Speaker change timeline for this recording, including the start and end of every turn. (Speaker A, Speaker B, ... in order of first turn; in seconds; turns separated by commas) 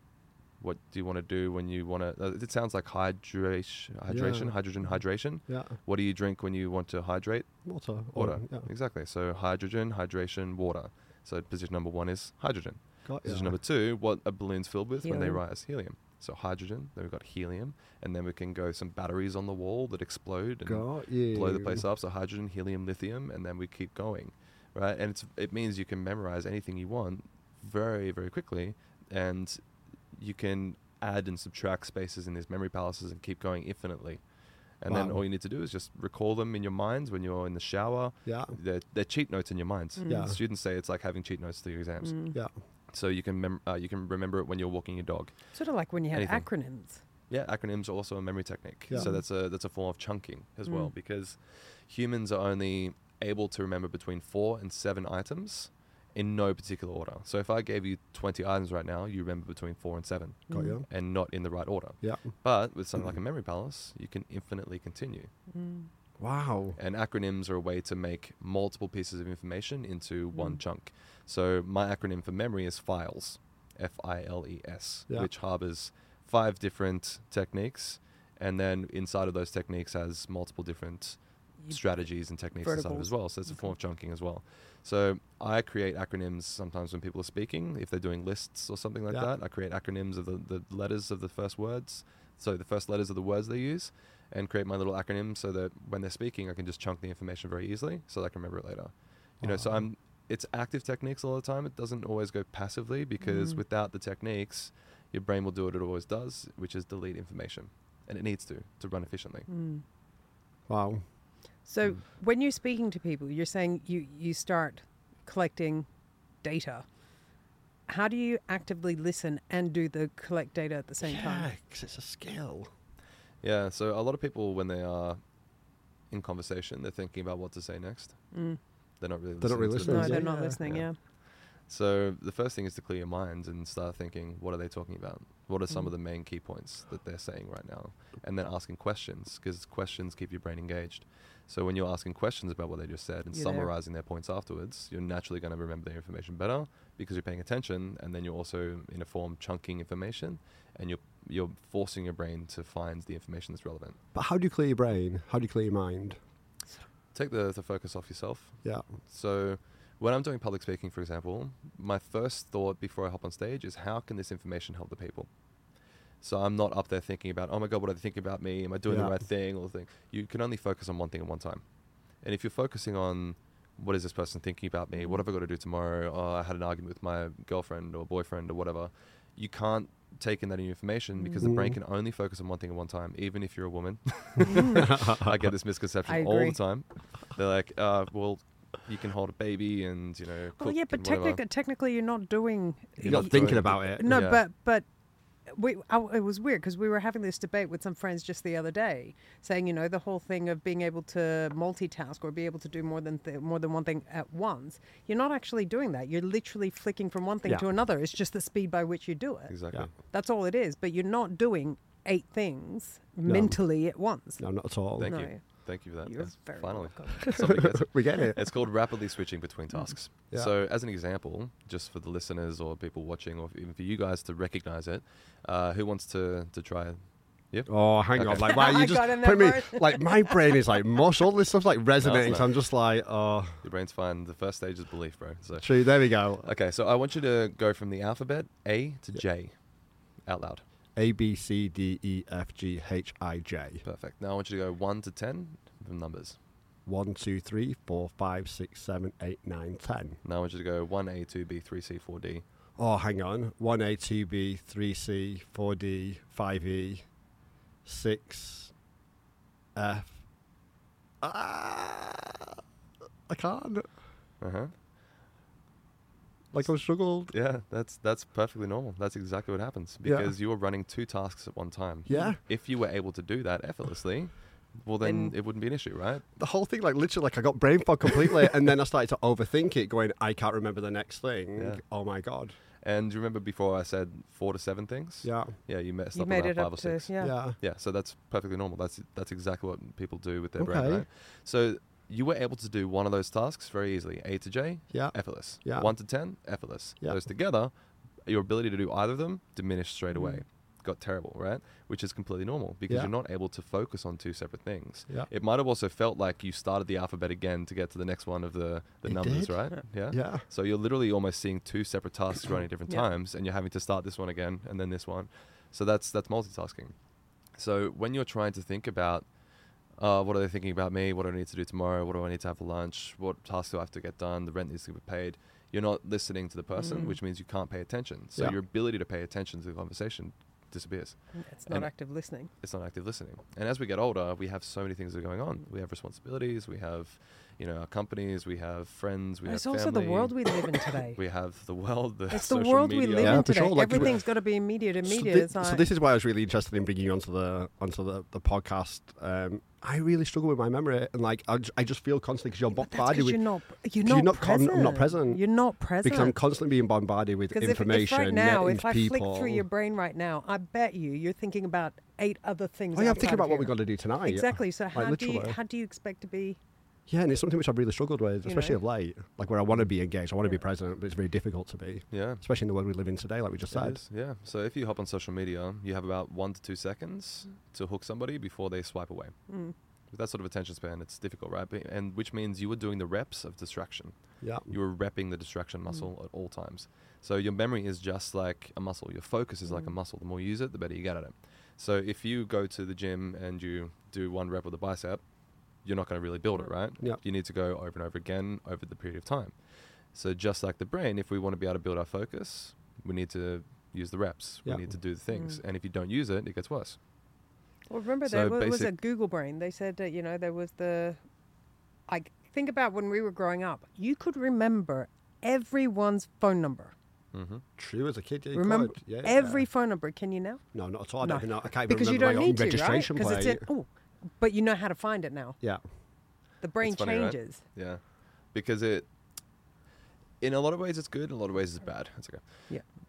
Speaker A: 0.6-29.6, Speaker B: 4.1-4.6, Speaker B: 5.5-5.8, Speaker B: 7.7-8.7, Speaker B: 13.1-13.6, Speaker C: 15.0-15.4, Speaker B: 20.7-21.8, Speaker A: 30.1-34.2, Speaker A: 34.8-42.3, Speaker B: 34.9-35.2, Speaker B: 38.3-38.6, Speaker C: 40.0-40.4, Speaker B: 40.1-40.4, Speaker C: 42.0-42.4, Speaker A: 42.9-45.4, Speaker C: 45.5-47.0, Speaker A: 46.1-46.5, Speaker A: 47.3-65.3, Speaker C: 48.9-49.2, Speaker C: 50.7-50.9, Speaker C: 60.5-60.8, Speaker B: 60.5-60.9, Speaker B: 62.0-62.3, Speaker C: 65.5-65.9, Speaker B: 66.2-66.8, Speaker A: 66.8-109.5, Speaker C: 70.3-70.6, Speaker C: 82.6-83.7, Speaker B: 99.4-99.8, Speaker C: 103.2-103.6, Speaker C: 109.5-109.8, Speaker B: 110.7-111.0, Speaker C: 111.7-115.9, Speaker C: 116.4-116.9, Speaker C: 117.9-121.5, Speaker B: 121.0-122.7, Speaker A: 123.4-125.2, Speaker A: 126.1-128.4, Speaker C: 128.3-128.6, Speaker A: 129.0-154.0, Speaker B: 129.4-130.6, Speaker C: 129.8-131.0, Speaker C: 143.3-143.7, Speaker B: 154.1-156.2, Speaker A: 157.1-165.3, Speaker A: 166.2-171.6, Speaker B: 168.9-169.1, Speaker A: 172.2-191.4, Speaker C: 181.2-181.5, Speaker B: 181.4-181.8, Speaker C: 184.4-184.9, Speaker B: 184.8-185.3, Speaker C: 186.1-186.6, Speaker C: 190.6-194.9, Speaker A: 193.0-194.4, Speaker B: 193.1-194.1, Speaker C: 195.5-214.4, Speaker A: 209.5-209.9, Speaker B: 213.3-213.7, Speaker B: 214.4-215.1, Speaker A: 215.0-227.0, Speaker C: 215.0-217.5, Speaker B: 217.4-218.4, Speaker A: 227.5-228.7, Speaker B: 227.7-233.6, Speaker C: 228.4-230.6, Speaker A: 232.0-232.5, Speaker A: 233.6-239.5, Speaker B: 235.6-236.5, Speaker A: 240.2-240.6, Speaker B: 241.0-243.8, Speaker A: 243.8-246.4, Speaker B: 246.9-250.2, Speaker A: 250.2-252.4, Speaker B: 252.8-257.1, Speaker B: 257.9-258.7, Speaker B: 259.8-260.1, Speaker B: 261.2-262.6, Speaker B: 263.3-263.9, Speaker A: 264.4-264.7, Speaker B: 266.5-267.3, Speaker A: 267.3-276.2, Speaker B: 270.0-270.3, Speaker B: 272.1-272.4, Speaker C: 272.1-272.4, Speaker C: 275.0-275.4, Speaker B: 276.4-282.6, Speaker A: 281.6-281.8, Speaker A: 282.8-297.7, Speaker B: 285.2-285.6, Speaker C: 286.1-287.4, Speaker B: 287.2-287.6, Speaker B: 290.6-291.1, Speaker B: 294.9-296.0, Speaker A: 298.2-316.9, Speaker C: 300.1-300.4, Speaker B: 309.1-310.5, Speaker A: 317.5-319.3, Speaker A: 320.0-331.9, Speaker C: 326.8-327.2, Speaker C: 331.3-332.5, Speaker A: 332.5-344.2, Speaker C: 339.5-341.2, Speaker C: 342.3-345.9, Speaker B: 343.2-344.3, Speaker B: 345.0-353.4, Speaker C: 352.8-356.4, Speaker B: 354.0-359.7, Speaker C: 357.5-366.6, Speaker B: 362.9-365.6, Speaker B: 367.1-374.0, Speaker C: 368.4-368.8, Speaker A: 372.1-372.4, Speaker A: 373.7-379.4, Speaker C: 379.5-379.8, Speaker A: 380.1-395.2, Speaker B: 384.4-384.7, Speaker C: 389.7-389.9, Speaker A: 395.8-407.0, Speaker C: 405.3-405.6, Speaker C: 407.9-411.2, Speaker A: 408.3-408.9, Speaker C: 412.1-416.9, Speaker A: 417.3-417.6, Speaker B: 417.8-419.7, Speaker C: 418.5-420.6, Speaker B: 420.7-423.7, Speaker C: 421.2-425.6, Speaker C: 426.6-427.6, Speaker A: 426.8-429.1, Speaker A: 430.4-432.7